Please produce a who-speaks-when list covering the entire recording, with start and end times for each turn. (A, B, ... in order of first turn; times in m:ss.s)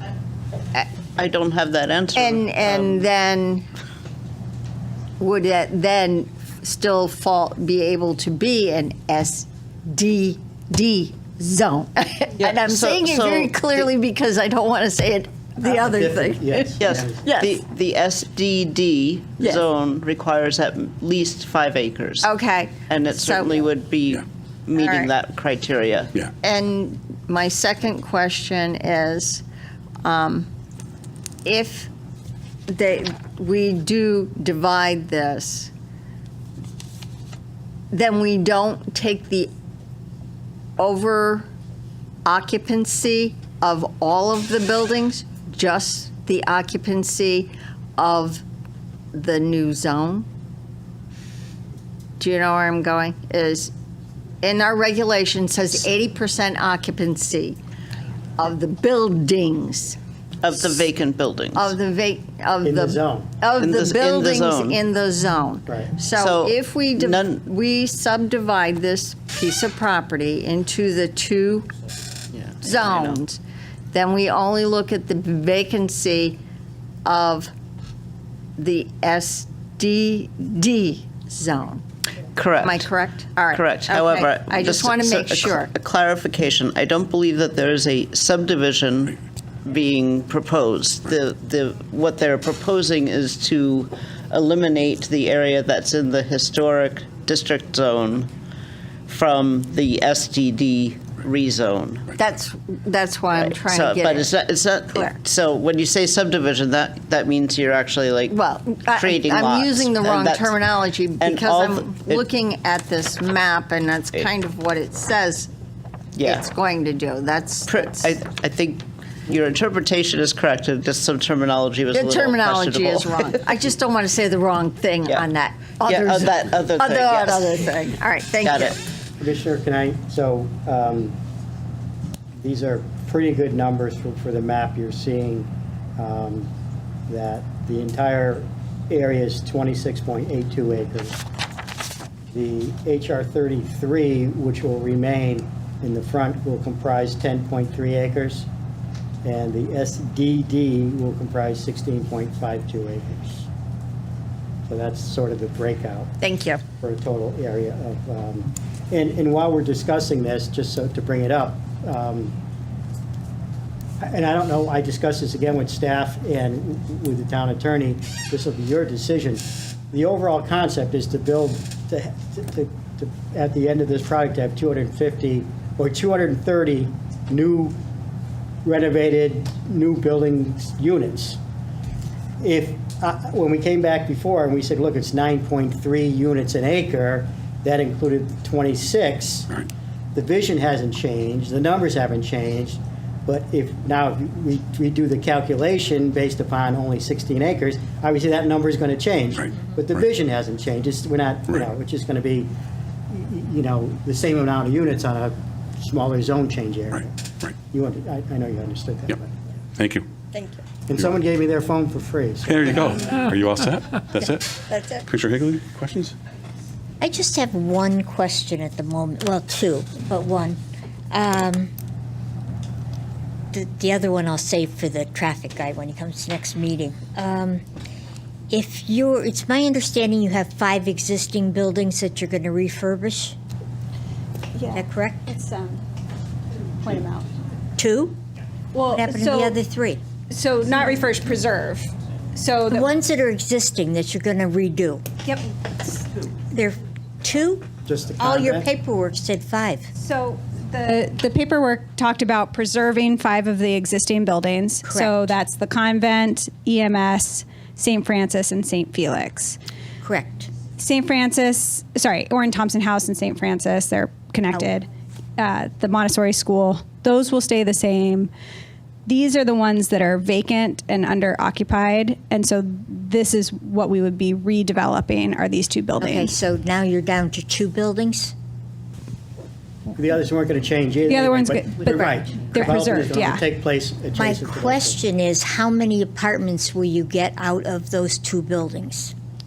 0:01.2-0:03.1 A
0:02.1-0:03.6 B
0:05.2-0:17.5 B
0:12.4-0:13.9 A
0:15.6-0:17.2 C
0:16.8-0:22.3 A
0:22.2-0:23.6 B
0:22.9-0:26.1 A
0:24.8-0:25.1 B
0:26.4-0:29.4 B
0:30.0-0:30.5 B
0:31.4-0:31.9 B
0:32.7-0:35.7 B
0:37.9-0:39.5 B
0:40.8-0:41.5 B
0:42.2-0:48.4 B
0:49.1-0:50.3 B
0:52.2-0:53.7 B
0:54.4-0:57.6 B
0:58.4-1:00.0 B
1:00.4-1:01.7 A
1:01.5-1:11.7 B
1:02.6-1:03.3 C
1:03.6-1:04.8 A
1:06.1-1:07.3 A
1:12.3-1:13.2 A
1:12.6-1:13.4 B
1:13.9-1:16.4 B
1:17.0-1:17.5 B
1:18.6-1:21.8 B
1:22.3-1:22.9 A
1:22.6-1:25.7 B
1:23.5-1:38.3 A
1:39.1-1:42.1 A
1:42.2-1:44.3 B
1:43.3-1:48.4 A
1:48.3-1:55.5 B
1:48.9-1:50.6 A
1:51.2-1:52.2 A
1:56.2-1:56.4 A
1:56.2-1:58.1 B
1:57.7-2:03.3 A
2:01.9-2:08.8 B
2:05.8-2:07.6 A
2:08.4-2:08.8 A
2:09.2-2:11.2 C
2:12.4-2:16.5 C
2:17.1-2:21.2 C
2:22.3-2:28.5 C
2:29.2-2:33.5 C
2:34.7-2:36.2 C
2:36.2-2:36.6 B
2:36.8-2:42.3 C
2:44.0-2:57.8 C
2:58.6-3:01.4 C
3:02.4-3:22.5 C
3:23.1-3:27.2 C
3:27.7-3:29.3 C
3:29.8-3:30.1 D
3:30.9-3:32.8 C
3:32.5-3:34.5 D
3:34.7-3:35.0 B
3:35.0-3:36.2 D
3:37.0-3:40.6 E
3:41.1-3:41.7 E
3:43.5-3:47.6 E
3:48.5-3:53.4 E
3:54.6-3:55.8 F
3:54.7-3:55.3 E
3:56.7-3:57.3 F
3:57.8-3:58.2 E
3:58.7-3:59.6 F
3:58.9-4:00.0 E
4:00.3-4:02.9 F
4:02.7-4:05.1 E
4:05.2-4:06.2 F
4:06.5-4:07.7 E
4:07.9-4:08.7 C
4:08.2-4:09.9 E
4:10.0-4:19.6 F
4:14.8-4:15.4 E
4:20.0-4:20.5 E
4:20.8-4:24.9 F
4:25.4-4:28.3 F
4:29.1-4:36.3 F
4:36.0-4:38.3 E
4:39.9-4:45.0 C
4:41.1-4:43.4 F
4:44.1-4:49.1 E